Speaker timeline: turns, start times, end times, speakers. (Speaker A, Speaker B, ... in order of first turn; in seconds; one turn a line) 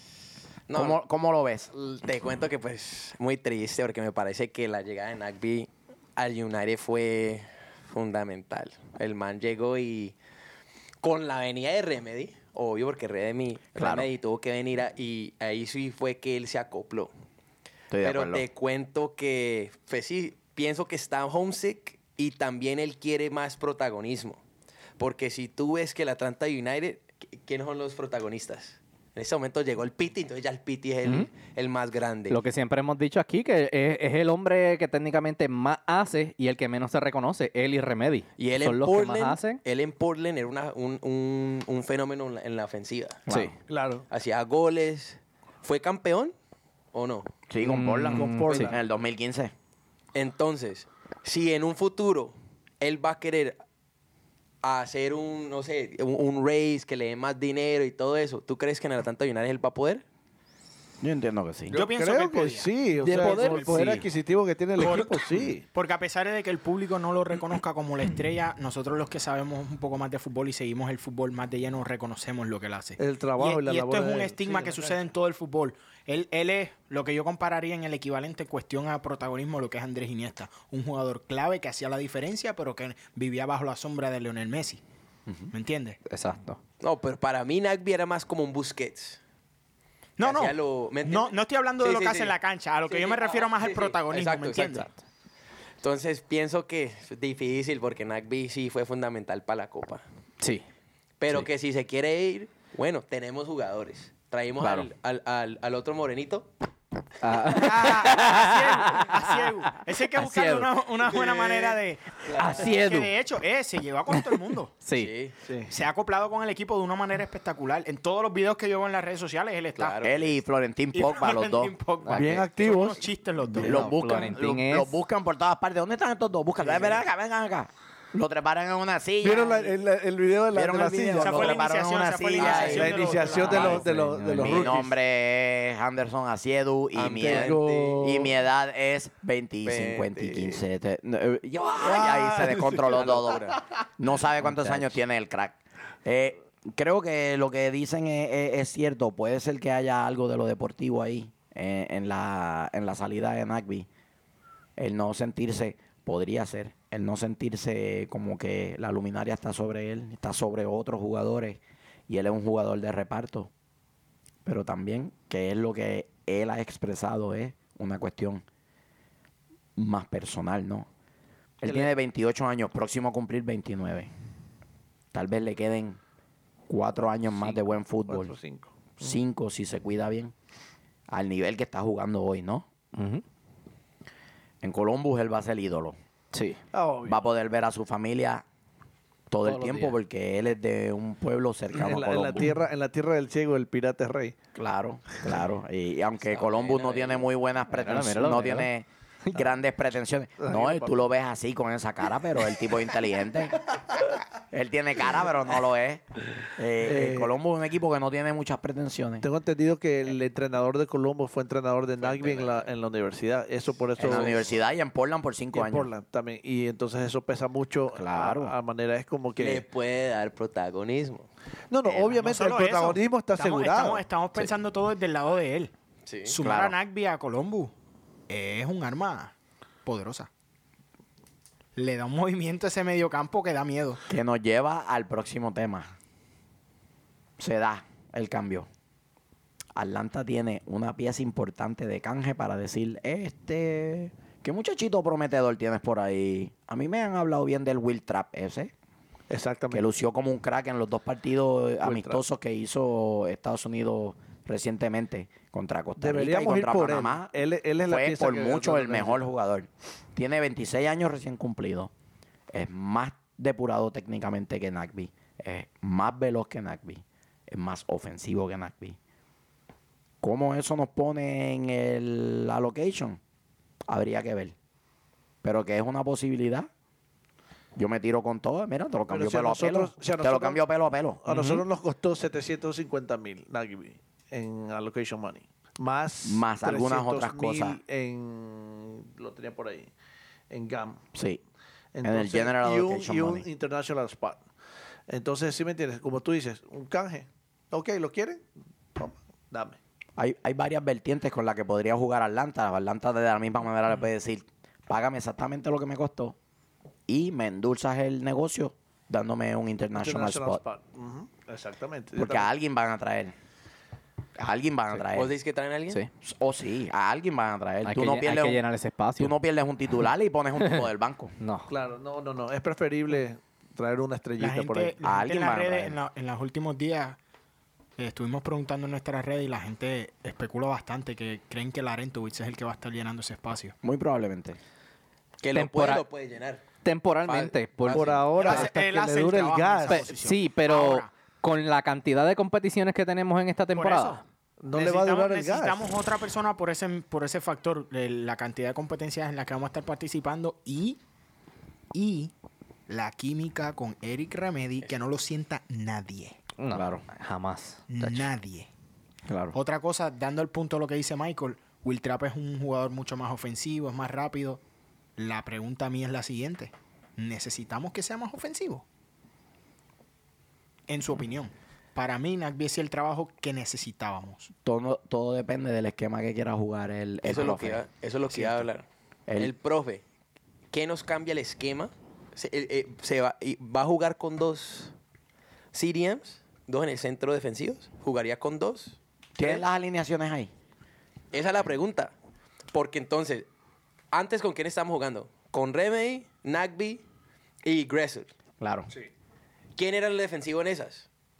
Speaker A: 0.7-1.0
Speaker B: 0.7-1.7
Speaker A: 1.7-10.2
Speaker A: 11.0-17.1
Speaker B: 13.8-14.1
Speaker B: 17.9-18.4
Speaker A: 18.0-24.4
Speaker A: 25.0-32.4
Speaker C: 31.0-31.3
Speaker C: 32.3-39.6
Speaker A: 38.4-43.3
Speaker B: 43.3-43.5
Speaker C: 43.3-43.5
Speaker D: 43.7-44.0
Speaker A: 44.1-46.3
Speaker A: 46.9-47.3
Speaker B: 47.5-49.5
Speaker C: 47.6-48.7
Speaker D: 48.1-48.8
Speaker A: 50.1-53.6
Speaker A: 54.6-60.0
Speaker B: 61.0-61.8
Speaker D: 61.7-65.6
Speaker E: 61.7-64.0
Speaker C: 63.1-64.0
Speaker B: 63.1-64.1
Speaker E: 64.8-84.8
Speaker D: 73.0-75.0
Speaker E: 85.5-86.0
Speaker C: 86.1-86.6
Speaker A: 86.8-89.2
Speaker E: 90.2-94.9
Speaker A: 90.2-92.3
Speaker A: 92.9-94.9
Speaker A: 95.8-100.0
Speaker C: 100.4-100.7
Speaker A: 101.2-106.5
Speaker B: 104.6-104.9
Speaker C: 107.2-110.7
Speaker E: 107.5-114.7
Speaker A: 112.3-112.7
Speaker C: 112.4-113.1
Speaker C: 114.8-115.1
Speaker A: 115.0-115.3
Speaker D: 115.5-115.7
Speaker E: 115.7-120.0
Speaker A: 119.8-120.4
Speaker B: 120.0-121.7
Speaker E: 120.9-123.9
Speaker C: 122.1-122.4
Speaker D: 122.1-123.1
Speaker B: 123.6-129.8
Speaker C: 123.6-125.0
Speaker D: 129.2-131.7
Speaker B: 130.5-143.4
Speaker E: 131.2-133.8
Speaker A: 132.4-133.8
Speaker D: 132.4-134.9
Speaker C: 133.7-134.6
Speaker A: 136.9-138.1
Speaker D: 137.1-138.3
Speaker A: 139.7-140.6
Speaker D: 141.8-143.2
Speaker A: 142.7-143.6
Speaker B: 144.0-153.9
Speaker B: 154.8-163.5
Speaker B: 164.4-168.4
Speaker B: 169.8-170.9
Speaker B: 171.6-174.1
Speaker D: 171.7-171.9
Speaker B: 175.1-176.0
Speaker B: 176.7-178.3
Speaker D: 178.1-179.2
Speaker B: 179.0-180.3
Speaker B: 181.1-182.7
Speaker C: 182.9-183.2
Speaker B: 184.6-185.9
Speaker C: 186.3-186.6
Speaker D: 186.7-187.2
Speaker B: 187.1-188.4
Speaker B: 189.3-192.6
Speaker C: 189.4-189.9
Speaker D: 191.7-194.4
Speaker B: 194.6-203.6
Speaker A: 196.2-197.3
Speaker C: 197.7-198.7
Speaker D: 200.4-201.0
Speaker B: 204.5-206.0
Speaker B: 206.6-209.3
Speaker D: 206.8-207.3
Speaker D: 209.2-214.4
Speaker A: 212.0-212.7
Speaker A: 214.0-214.6
Speaker B: 214.0-215.9
Speaker D: 215.5-219.6
Speaker B: 217.9-218.6
Speaker A: 219.4-221.3
Speaker D: 221.7-224.1
Speaker E: 222.2-225.7
Speaker A: 226.1-226.3
Speaker E: 226.2-227.7
Speaker B: 226.4-226.8
Speaker E: 228.3-230.3
Speaker E: 231.8-234.0
Speaker B: 234.1-235.9
Speaker B: 237.4-238.7
Speaker B: 239.8-248.7
Speaker D: 249.3-249.9
Speaker B: 249.7-257.3
Speaker D: 251.8-252.2
Speaker D: 256.0-259.2
Speaker B: 257.9-261.9
Speaker B: 262.5-269.0
Speaker B: 270.2-273.2
Speaker B: 273.9-274.6
Speaker B: 275.4-276.7
Speaker B: 277.8-281.2
Speaker D: 279.1-280.6
Speaker D: 281.2-289.9
Speaker C: 281.3-281.6
Speaker B: 286.2-287.8
Speaker D: 290.5-291.0
Speaker B: 291.1-291.4
Speaker D: 291.9-294.4
Speaker B: 292.0-293.5
Speaker D: 295.1-298.4
Speaker D: 299.0-299.8
Speaker B: 300.2-306.4
Speaker B: 307.1-310.6
Speaker D: 310.0-312.5
Speaker B: 312.1-313.3
Speaker B: 314.4-315.3
Speaker A: 315.1-316.0
Speaker B: 316.2-318.6
Speaker C: 317.9-319.3
Speaker B: 319.2-321.3
Speaker C: 321.4-321.7
Speaker D: 321.7-324.9
Speaker E: 324.4-327.2
Speaker B: 325.0-326.0
Speaker E: 328.0-333.7
Speaker B: 333.8-334.6
Speaker A: 335.4-336.7
Speaker C: 335.5-336.1
Speaker C: 336.8-338.2
Speaker A: 337.3-338.7
Speaker D: 337.9-340.1
Speaker E: 338.4-341.1
Speaker C: 339.9-344.2
Speaker E: 343.8-344.2
Speaker D: 344.6-345.8
Speaker E: 344.7-351.0
Speaker E: 351.9-352.3
Speaker E: 352.9-356.4
Speaker C: 356.6-358.3
Speaker B: 356.7-357.0
Speaker E: 357.9-358.7
Speaker B: 359.3-359.6
Speaker E: 359.5-364.6
Speaker E: 365.2-368.9
Speaker E: 370.9-374.5
Speaker B: 374.6-378.6
Speaker A: 377.2-378.9
Speaker B: 379.3-379.5
Speaker A: 379.4-380.0
Speaker A: 380.7-384.9
Speaker A: 385.7-389.6
Speaker B: 389.4-390.5
Speaker A: 391.3-392.1
Speaker A: 392.7-393.5
Speaker A: 394.1-397.0
Speaker A: 397.6-398.3
Speaker B: 398.6-398.9
Speaker A: 399.8-401.1